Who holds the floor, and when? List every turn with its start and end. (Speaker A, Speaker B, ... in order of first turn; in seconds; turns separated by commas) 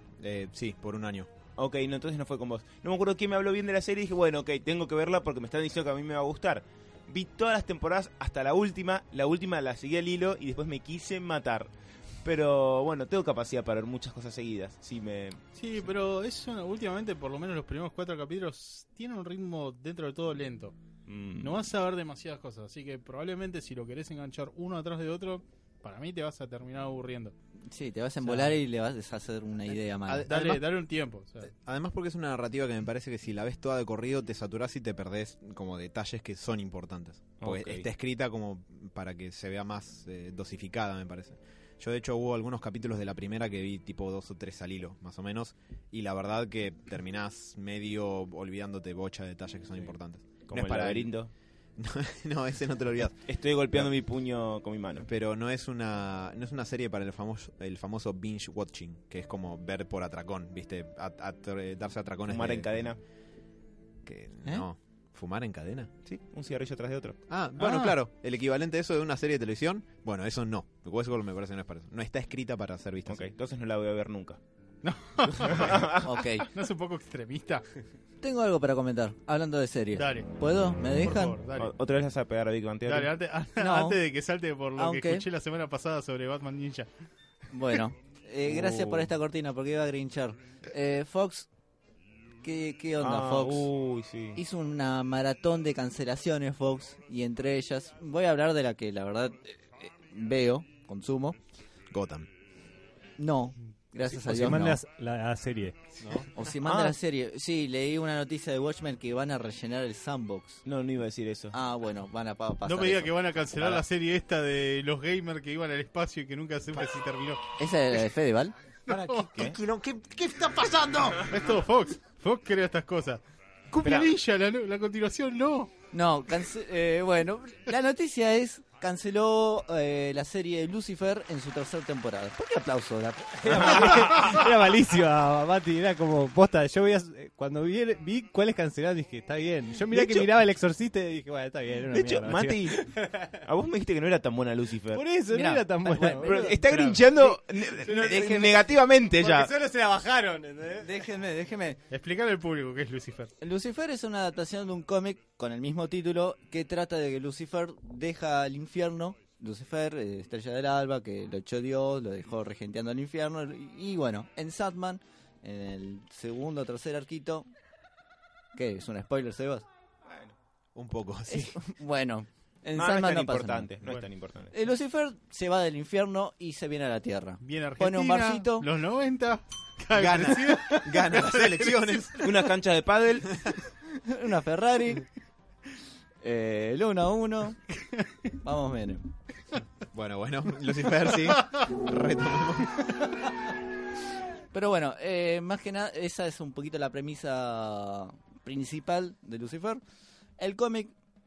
Speaker A: 0.2-1.3, Speaker B: 1.6-11.7, Speaker B: 12.2-15.4, Speaker C: 15.6-20.8, Speaker B: 21.1-21.6, Speaker C: 21.4-27.3, Speaker D: 27.7-30.3, Speaker A: 30.1-30.6, Speaker C: 30.3-31.5, Speaker A: 31.6-51.1, Speaker B: 37.4-37.9, Speaker B: 50.5-51.3, Speaker A: 51.8-53.9, Speaker B: 53.3-55.1, Speaker A: 55.0-62.9, Speaker B: 62.3-63.0, Speaker A: 64.0-65.9, Speaker B: 66.0-67.2, Speaker A: 67.3-73.3, Speaker C: 67.6-67.9, Speaker B: 73.1-74.4, Speaker C: 74.8-75.8, Speaker B: 75.2-76.4, Speaker D: 76.0-76.5, Speaker C: 76.5-77.6, Speaker D: 78.2-81.3, Speaker C: 79.9-80.4, Speaker C: 80.9-81.7, Speaker B: 81.5-83.1, Speaker C: 82.8-86.9, Speaker D: 83.6-84.0, Speaker D: 84.8-85.2, Speaker D: 87.5-91.5, Speaker B: 88.4-89.1, Speaker D: 92.4-93.7, Speaker B: 93.0-94.4, Speaker D: 94.3-101.4, Speaker A: 101.9-102.3, Speaker D: 103.2-104.8, Speaker E: 104.1-106.3, Speaker D: 106.3-110.6, Speaker B: 106.6-107.0, Speaker B: 110.7-111.5, Speaker D: 111.5-113.1, Speaker C: 112.6-117.4, Speaker B: 113.6-113.8, Speaker D: 117.6-118.5, Speaker C: 118.9-119.3, Speaker B: 119.1-119.6, Speaker A: 119.4-121.2, Speaker D: 120.5-120.8, Speaker C: 121.2-125.7, Speaker B: 123.8-124.1, Speaker D: 125.9-134.4, Speaker E: 133.4-143.4, Speaker B: 133.5-134.0, Speaker B: 139.9-140.3, Speaker B: 141.9-142.9, Speaker B: 143.4-145.0, Speaker E: 144.9-146.9, Speaker D: 145.3-147.3, Speaker B: 146.2-149.5, Speaker E: 147.7-148.2, Speaker D: 147.9-148.6, Speaker E: 149.2-150.9, Speaker D: 150.8-151.8, Speaker C: 151.9-153.3, Speaker D: 153.4-167.5, Speaker D: 168.5-169.7, Speaker B: 170.1-170.3, Speaker A: 170.7-171.6, Speaker D: 171.3-173.7, Speaker B: 172.7-174.5, Speaker D: 174.5-178.7, Speaker C: 177.4-182.2, Speaker A: 179.9-182.3, Speaker B: 182.2-183.4, Speaker D: 183.9-185.1, Speaker D: 186.2-187.6, Speaker D: 188.4-189.1, Speaker A: 189.9-192.9, Speaker D: 194.5-199.8, Speaker D: 200.4-200.9